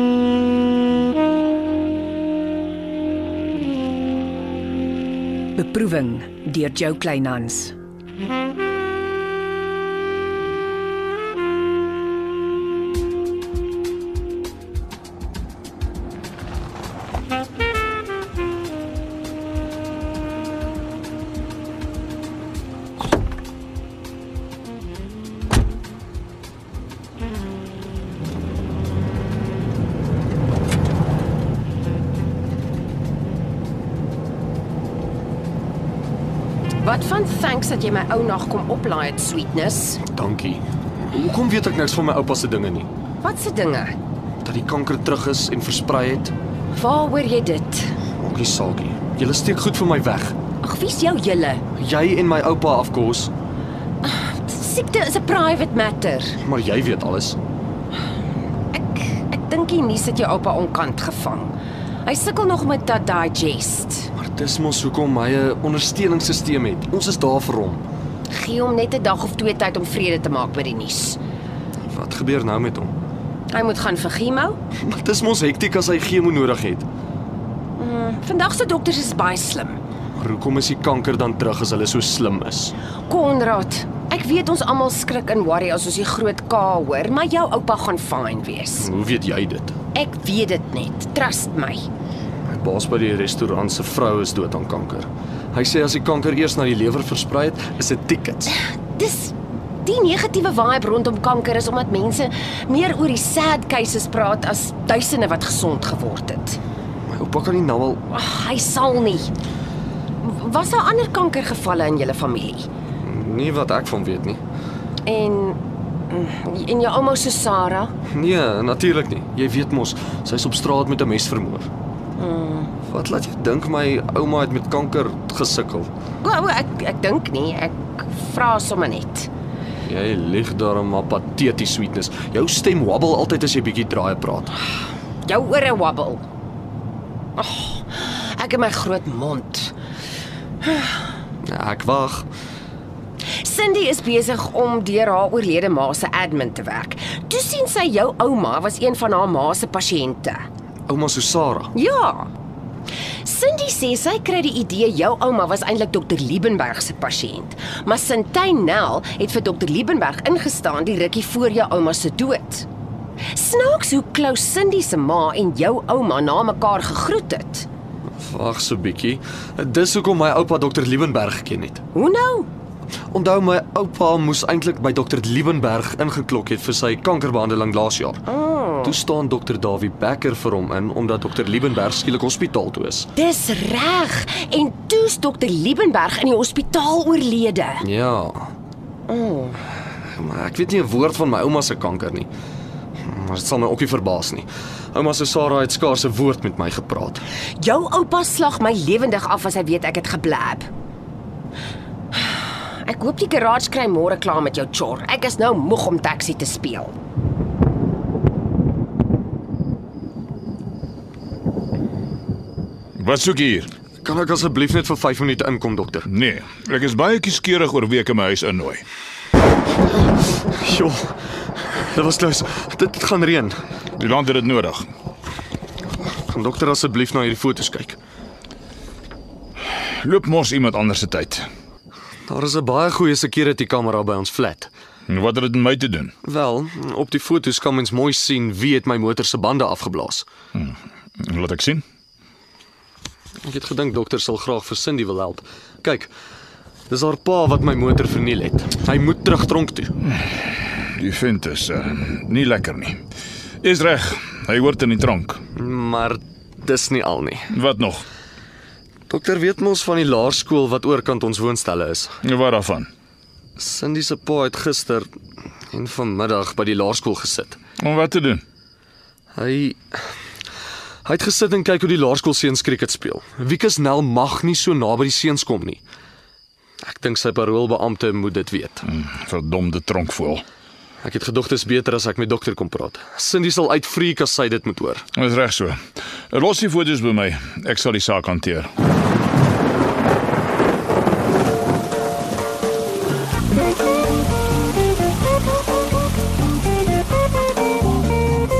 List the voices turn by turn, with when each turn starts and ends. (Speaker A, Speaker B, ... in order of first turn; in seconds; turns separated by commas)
Speaker A: 5.6-7.7, Speaker B: 36.8-40.0, Speaker C: 40.1-42.9, Speaker B: 43.2-44.0, Speaker C: 44.4-46.3, Speaker B: 46.7-48.0, Speaker C: 48.2-50.4, Speaker B: 50.6-51.6, Speaker C: 51.8-53.3, Speaker B: 54.0-56.4, Speaker C: 56.4-57.4, Speaker B: 58.7-61.5, Speaker B: 62.0-64.1, Speaker C: 64.2-67.8, Speaker B: 68.3-71.2, Speaker C: 71.9-72.9, Speaker B: 73.5-74.6, Speaker C: 74.8-76.9, Speaker B: 77.8-79.8, Speaker C: 80.2-82.7, Speaker B: 83.1-88.9, Speaker C: 88.8-89.8, Speaker B: 89.9-91.9, Speaker C: 92.5-98.5, Speaker B: 98.5-106.6, Speaker C: 107.1-108.0, Speaker B: 108.1-109.3, Speaker B: 110.2-112.7, Speaker C: 113.0-114.4, Speaker B: 115.0-115.6, Speaker B: 116.1-117.9, Speaker C: 118.1-121.7, Speaker B: 122.2-122.7, Speaker C: 122.9-125.9, Speaker B: 126.2-129.3, Speaker C: 129.9-134.6, Speaker B: 135.2-136.2, Speaker B: 137.4-139.7, Speaker B: 140.6-141.1, Speaker C: 141.4-142.3, Speaker B: 143.4-150.4, Speaker C: 150.9-151.7, Speaker B: 151.8-152.3, Speaker B: 153.2-162.7, Speaker B: 163.3-167.7, Speaker C: 168.2-171.8, Speaker B: 171.9-172.5, Speaker C: 173.1-178.2, Speaker B: 178.3-179.0, Speaker C: 178.8-183.1, Speaker B: 183.2-187.8, Speaker C: 187.8-188.5, Speaker B: 189.1-189.6, Speaker C: 190.2-192.3, Speaker C: 193.1-197.2, Speaker B: 197.6-200.7, Speaker B: 202.1-206.9, Speaker D: 213.0-213.7, Speaker C: 214.0-216.1, Speaker D: 216.1-218.8, Speaker C: 220.6-223.6, Speaker D: 224.0-224.8, Speaker C: 226.2-228.0, Speaker D: 229.7-231.4, Speaker C: 232.3-234.7, Speaker D: 235.1-236.1, Speaker C: 236.2-240.3, Speaker D: 240.6-241.8, Speaker C: 243.4-246.1, Speaker C: 246.9-249.9, Speaker D: 250.1-253.0, Speaker D: 253.6-255.4, Speaker C: 255.6-257.5, Speaker D: 257.5-258.0, Speaker C: 259.1-262.2, Speaker D: 262.2-262.9, Speaker C: 263.6-265.1, Speaker C: 265.7-267.6, Speaker D: 267.8-268.4, Speaker C: 269.4-270.0, Speaker C: 271.1-275.8, Speaker C: 276.8-278.8, Speaker D: 278.9-280.4, Speaker C: 281.0-285.1, Speaker D: 285.2-285.8, Speaker D: 286.3-288.7